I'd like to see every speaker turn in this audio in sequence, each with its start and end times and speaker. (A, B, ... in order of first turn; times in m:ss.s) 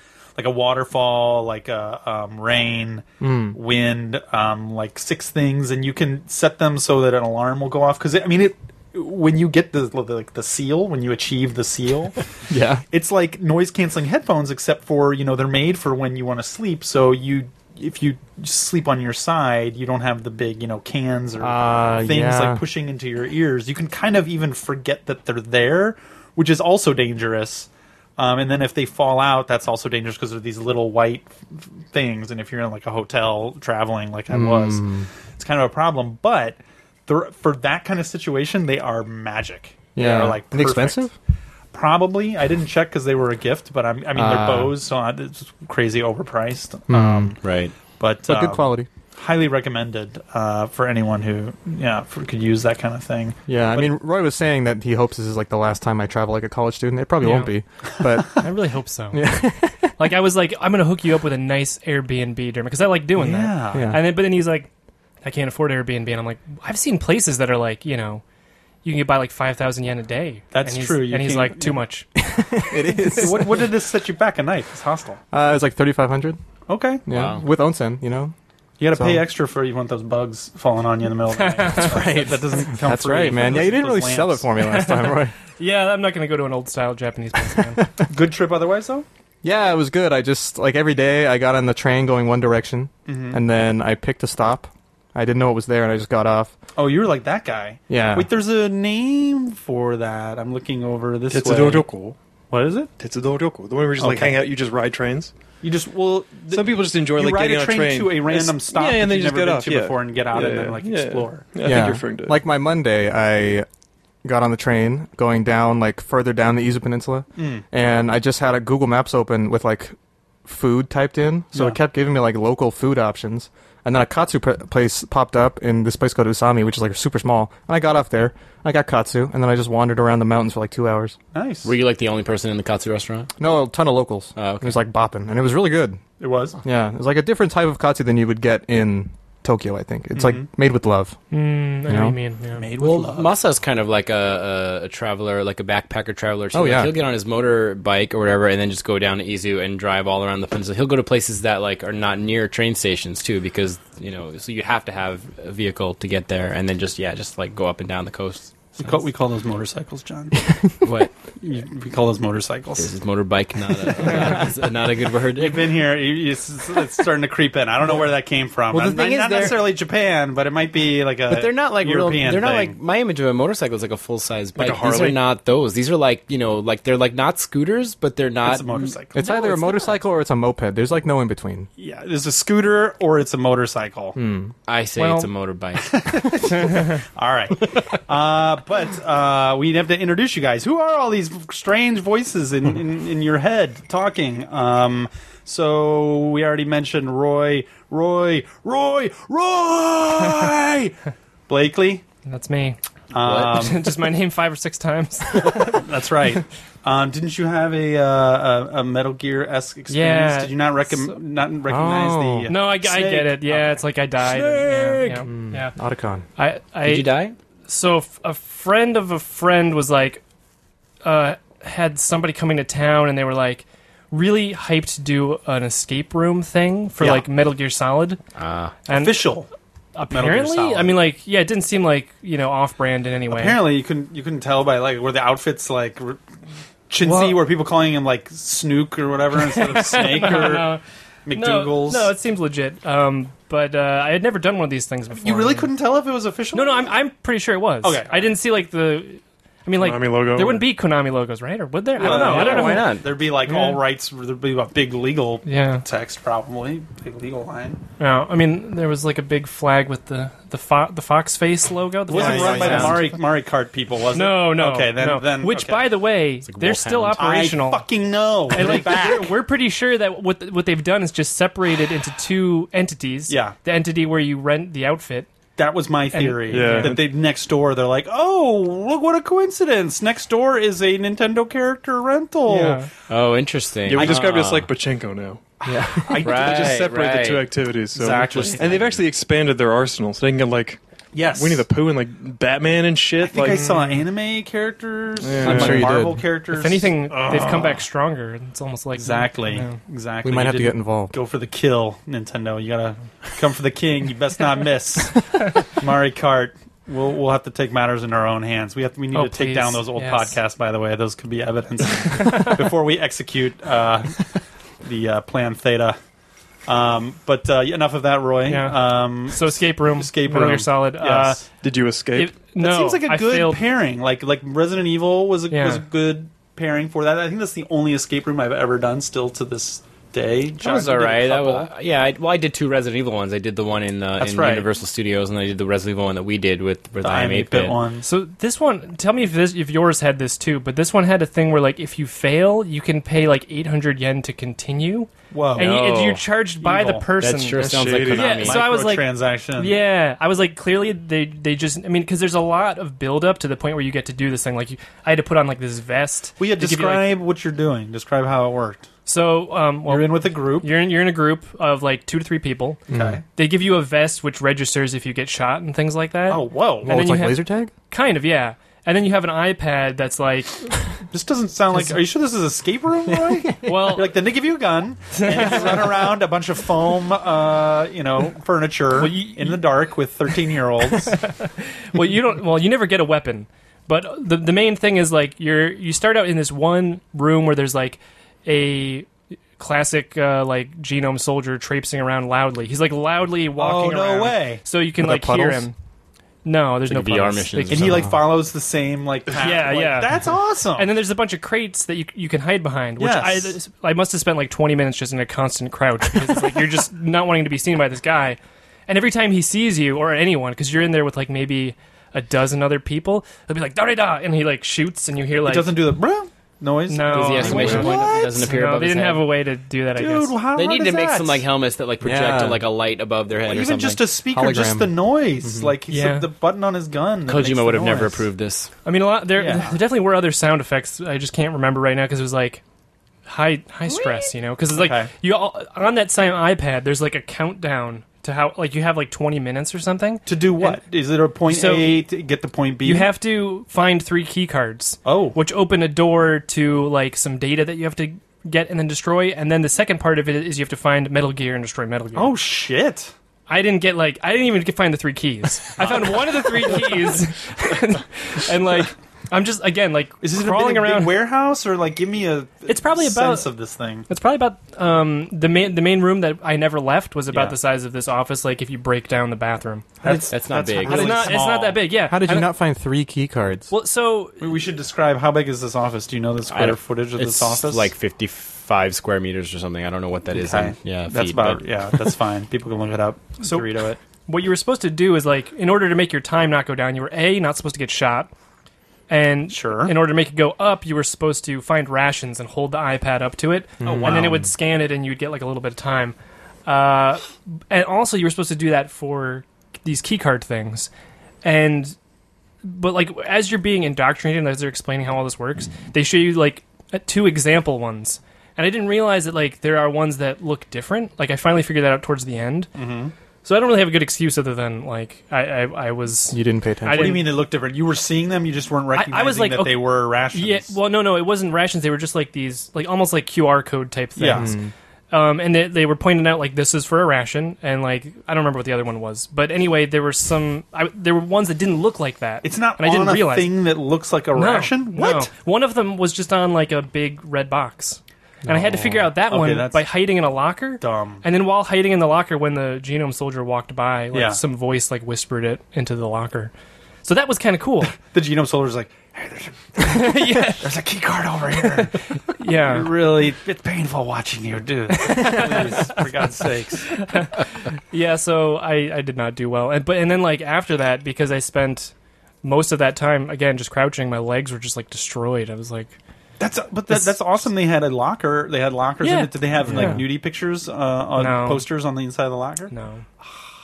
0:00.4-0:12.2 A
0:03.2-0:03.6 B
0:12.5-0:12.8 B
0:12.9-0:41.0 A
0:21.4-0:22.6 B
0:34.3-0:35.1 B
0:40.0-0:41.1 B
0:41.7-0:53.9 A
0:44.1-0:44.8 B
0:46.9-0:47.4 B
0:47.4-0:47.7 C
0:48.2-0:48.9 B
0:53.5-0:58.5 B
0:57.2-0:57.5 D
0:58.3-0:59.3 D
0:59.1-0:59.9 B
1:00.0-1:04.7 D
1:03.2-1:04.0 A
1:03.7-1:04.0 B
1:05.2-1:08.2 D
1:08.8-1:12.1 D
1:10.5-1:11.8 A
1:12.2-1:13.8 B
1:13.1-1:15.2 A
1:15.3-1:16.4 B
1:16.7-1:17.0 A
1:17.1-1:18.3 B
1:17.1-1:17.4 C
1:18.8-1:24.5 A
1:18.9-1:19.3 B
1:21.3-1:22.0 D
1:21.8-1:25.3 B
1:24.6-1:27.8 D
1:27.6-1:28.1 B
1:28.1-1:29.1 A
1:29.4-1:36.6 B
1:33.1-1:33.4 A
1:36.8-1:41.9 A
1:37.9-1:38.3 B
1:41.3-1:42.2 E
1:42.5-1:42.9 A
1:43.0-1:45.3 E
1:44.0-1:44.5 A
1:45.6-1:51.5 A
1:46.5-1:52.4 E
1:51.6-1:53.7 B
1:54.2-2:11.2 B
1:57.4-1:57.6 A
2:01.5-2:01.8 A
2:11.3-2:11.7 A
2:11.6-2:13.3 C
2:13.4-2:16.0 B
2:14.4-2:14.8 C
2:16.2-2:16.6 A
2:16.6-2:21.2 B
2:20.1-2:20.5 A
2:21.3-2:22.7 D
2:21.9-2:22.2 B
2:22.6-2:23.3 A
2:22.8-2:38.8 C
2:26.5-2:27.0 B
2:38.8-2:40.4 A
2:40.8-2:41.1 C
2:41.4-2:43.0 A
2:42.8-2:45.8 C
2:43.8-2:44.5 A
2:45.4-2:52.8 A
2:48.7-2:49.7 C
2:51.3-2:59.0 C
2:54.6-2:55.2 E
2:58.4-3:00.0 A
2:59.2-3:01.7 B
3:01.8-3:04.2 A
3:04.2-3:04.5 B
3:04.7-3:06.2 C
3:05.0-3:05.3 D
3:05.8-3:21.0 A
3:21.5-3:22.0 A
3:22.3-3:22.8 D
3:23.1-3:23.9 A
3:23.2-3:23.6 C
3:23.4-3:25.8 D
3:25.4-3:33.8 A
3:29.9-3:31.0 D
3:31.7-3:32.5 B
3:32.5-3:35.8 D
3:34.4-3:35.2 E
3:35.2-3:36.3 B
3:36.4-3:37.2 D
3:36.8-3:37.4 C
3:37.7-3:40.2 D
3:41.0-3:48.2 D
3:47.0-3:47.3 A
3:48.4-3:48.8 C
3:48.9-3:49.4 D
3:48.9-3:49.5 A
3:50.0-3:53.6 D
3:50.1-3:51.0 A
3:53.3-3:56.2 A
3:56.9-4:00.7 A
3:57.0-3:57.4 D
3:59.4-4:00.8 D
4:01.3-4:02.1 A
4:01.3-4:05.7 D
4:05.2-4:06.9 A
4:06.5-4:13.8 D
4:07.8-4:08.3 A
4:09.8-4:10.7 E
4:12.0-4:17.8 A
4:12.0-4:13.2 C
4:15.4-4:15.8 D
4:18.0-4:23.1 D
4:22.1-4:25.9 A
4:22.1-4:23.1 B
4:24.1-4:27.9 D
4:26.4-4:27.2 C
4:27.2-4:29.4 A
4:28.5-4:35.3 D
4:33.3-4:33.6 A
4:35.6-4:42.8 A
4:36.1-4:37.0 D
4:36.5-4:37.1 E
4:42.5-4:42.9 D
4:43.1-4:44.7 C
4:43.9-4:53.8 E
4:43.9-4:44.4 A
4:45.6-4:46.7 A
4:45.7-4:46.1 B
4:46.2-4:47.5 C
4:47.9-4:48.8 A
4:48.1-4:49.0 C
4:51.1-4:51.7 A
4:53.2-4:57.8 A
4:53.4-4:54.0 D
4:55.2-4:56.1 E
4:55.4-4:56.2 B
4:56.5-4:59.8 D
4:59.0-5:14.3 A
5:00.2-5:01.2 B
5:09.1-5:10.4 D
5:12.1-5:12.6 D
5:14.8-5:16.0 A
5:16.7-5:21.5 A
5:18.5-5:21.4 D
5:21.6-5:22.4 E
5:22.1-5:23.6 D
5:22.6-5:31.7 A
5:25.5-5:25.8 D
5:30.6-5:37.8 C
5:34.2-5:34.7 A
5:37.0-5:38.1 A
5:38.0-5:57.2 D
5:45.3-5:45.7 A
5:45.6-5:46.2 C
5:46.6-5:47.1 A
5:47.2-5:48.6 C
5:47.6-5:48.5 E
5:48.4-5:49.8 A
5:56.4-5:58.9 A
5:59.1-6:02.8 D
5:59.9-6:00.7 A
6:02.9-6:03.2 B
6:02.9-6:03.2 A
6:03.4-6:10.7 D
6:06.3-6:07.0 A
6:06.8-6:07.7 B
6:11.1-6:21.2 A
6:13.1-6:14.0 B
6:13.6-6:14.2 D
6:15.1-6:16.1 D
6:19.0-6:19.6 D
6:21.1-6:35.8 D
6:33.6-6:34.6 A
6:35.0-6:35.7 B
6:36.4-6:38.0 D
6:36.9-6:38.1 C
6:37.7-6:40.9 A
6:39.3-6:40.2 D
6:40.8-6:55.8 D
6:43.0-6:43.5 A
6:55.4-6:58.5 A
6:56.9-7:00.4 D
6:57.1-6:59.3 C
6:57.4-6:58.1 B
7:00.0-7:01.4 A
7:00.5-7:04.0 C
7:02.0-7:02.6 B
7:03.4-7:08.2 A
7:04.3-7:05.7 B
7:05.9-7:06.3 D
7:07.3-7:08.7 C
7:08.8-7:12.6 D
7:09.4-7:09.8 A
7:13.3-7:20.8 D
7:13.9-7:14.3 C
7:14.7-7:15.1 A
7:20.3-7:23.1 A
7:21.5-7:22.1 D
7:22.8-7:32.4 D
7:25.0-7:25.4 A
7:32.2-7:33.1 A
7:33.5-7:41.2 D
7:35.8-7:36.9 A
7:40.2-7:44.1 A
7:42.7-7:43.5 D
7:44.1-7:49.9 D
7:50.0-7:51.8 A
7:50.3-7:51.4 C
7:50.8-7:52.5 D
7:52.0-7:53.7 B
7:53.7-7:54.4 D
7:54.4-7:57.9 A
7:56.5-8:02.1 C
8:00.3-8:04.0 A
8:03.4-8:03.7 D
8:04.3-8:08.3 D
8:09.1-8:20.9 D
8:09.5-8:10.0 A
8:13.8-8:14.5 B
8:13.8-8:14.4 A
8:21.4-8:22.0 D
8:22.6-8:32.7 D
8:32.8-8:33.1 A
8:33.4-8:37.3 D
8:36.3-8:37.3 B
8:36.9-8:40.7 A
8:39.0-8:44.6 D
8:44.2-8:44.5 A
8:44.3-8:44.7 B
8:45.1-8:53.7 D
8:52.4-8:55.3 A
8:54.4-9:06.5 D
8:58.4-8:59.1 B
8:59.3-8:59.9 A
9:00.8-9:01.2 A
9:04.1-9:04.4 A
9:07.0-9:08.0 D
9:08.1-9:17.0 A
9:09.8-9:10.7 D
9:11.8-9:12.9 D
9:15.0-9:16.0 D
9:16.9-9:26.0 D
9:26.4-9:32.7 A
9:26.9-9:27.2 D
9:29.0-9:30.0 D
9:29.6-9:30.1 B
9:31.2-9:31.6 D
9:32.7-9:33.1 D